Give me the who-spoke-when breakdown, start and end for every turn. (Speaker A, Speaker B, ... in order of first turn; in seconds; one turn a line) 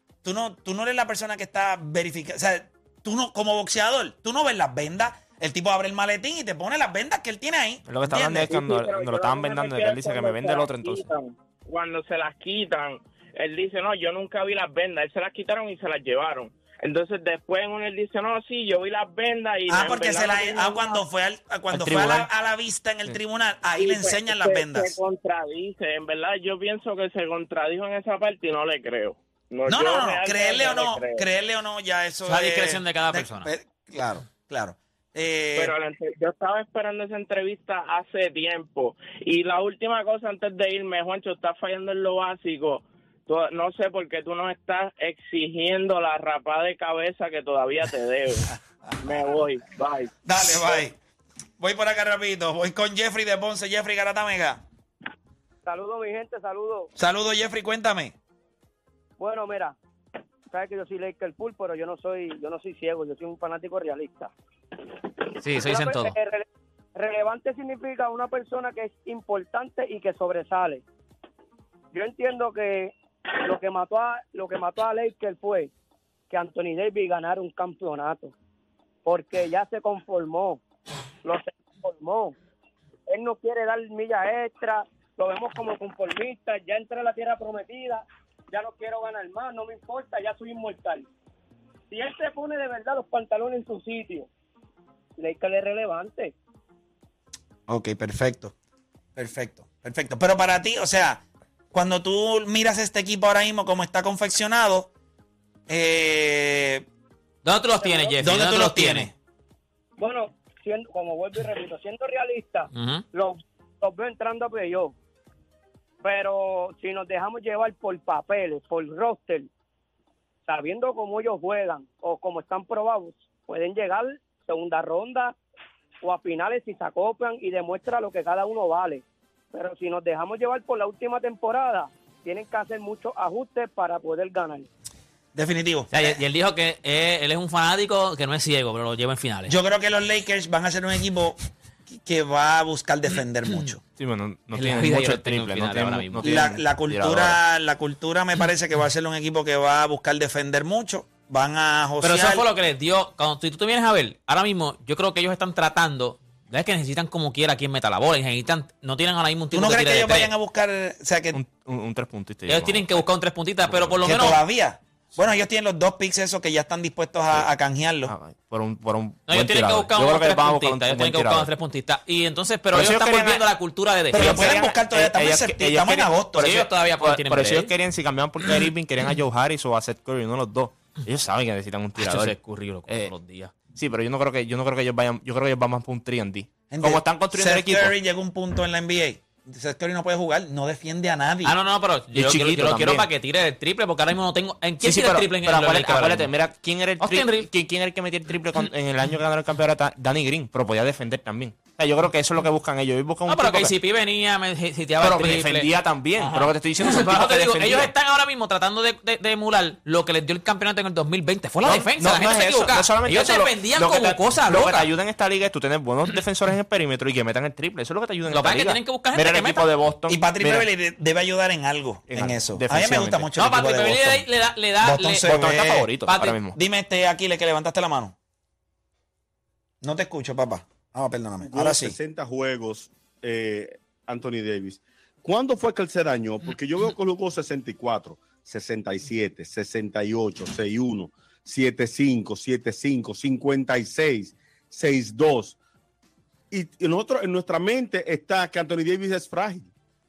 Speaker A: 0.2-8.5
Speaker B: 7.9-11.1
Speaker C: 8.4-21.0
Speaker A: 19.7-25.0
Speaker C: 23.8-31.3
Speaker A: 29.7-35.7
Speaker D: 32.2-33.5
Speaker C: 35.5-50.1
Speaker A: 50.2-51.0
Speaker A: 51.6-54.6
Speaker E: 55.7-56.9
Speaker A: 57.0-58.1
Speaker E: 59.2-59.8
Speaker E: 60.5-64.9
Speaker D: 65.4-66.2
Speaker E: 65.5-70.8
Speaker E: 71.9-75.7
Speaker E: 76.3-78.3
Speaker E: 79.0-80.6
Speaker E: 81.2-82.4
Speaker E: 83.1-91.1
Speaker E: 91.9-94.3
Speaker E: 95.2-96.3
Speaker A: 97.7-98.5
Speaker A: 99.2-104.9
Speaker A: 105.7-106.8
Speaker D: 107.4-109.1
Speaker E: 107.8-108.2
Speaker A: 108.2-109.1
Speaker E: 110.0-114.9
Speaker D: 112.7-113.0
Speaker E: 116.0-119.5
Speaker E: 120.5-125.4
Speaker E: 126.0-134.7
Speaker A: 135.3-136.2
Speaker D: 135.9-139.6
Speaker A: 139.5-143.8
Speaker B: 144.0-147.4
Speaker D: 144.5-146.5
Speaker A: 146.2-152.4
Speaker D: 152.0-160.3
Speaker A: 159.5-161.4
Speaker B: 161.3-163.1
Speaker D: 162.5-164.4
Speaker B: 163.7-164.2
Speaker A: 164.0-168.1
Speaker B: 168.1-171.5
Speaker D: 169.3-174.5
Speaker B: 172.7-173.5
Speaker B: 174.1-182.4
Speaker A: 174.1-176.6
Speaker D: 176.4-177.7
Speaker D: 182.0-183.5
Speaker B: 183.7-188.0
Speaker A: 186.7-191.6
Speaker D: 191.4-196.3
Speaker B: 192.1-193.1
Speaker B: 194.8-203.8
Speaker D: 197.0-197.5
Speaker D: 203.3-214.9
Speaker B: 205.0-207.9
Speaker B: 211.6-220.7
Speaker D: 218.3-219.7
Speaker A: 220.1-224.2
Speaker B: 222.1-223.3
Speaker D: 223.4-225.5
Speaker A: 224.8-228.2
Speaker B: 225.3-226.6
Speaker D: 226.1-226.4
Speaker A: 229.8-232.0
Speaker F: 231.4-245.6
Speaker F: 246.5-249.7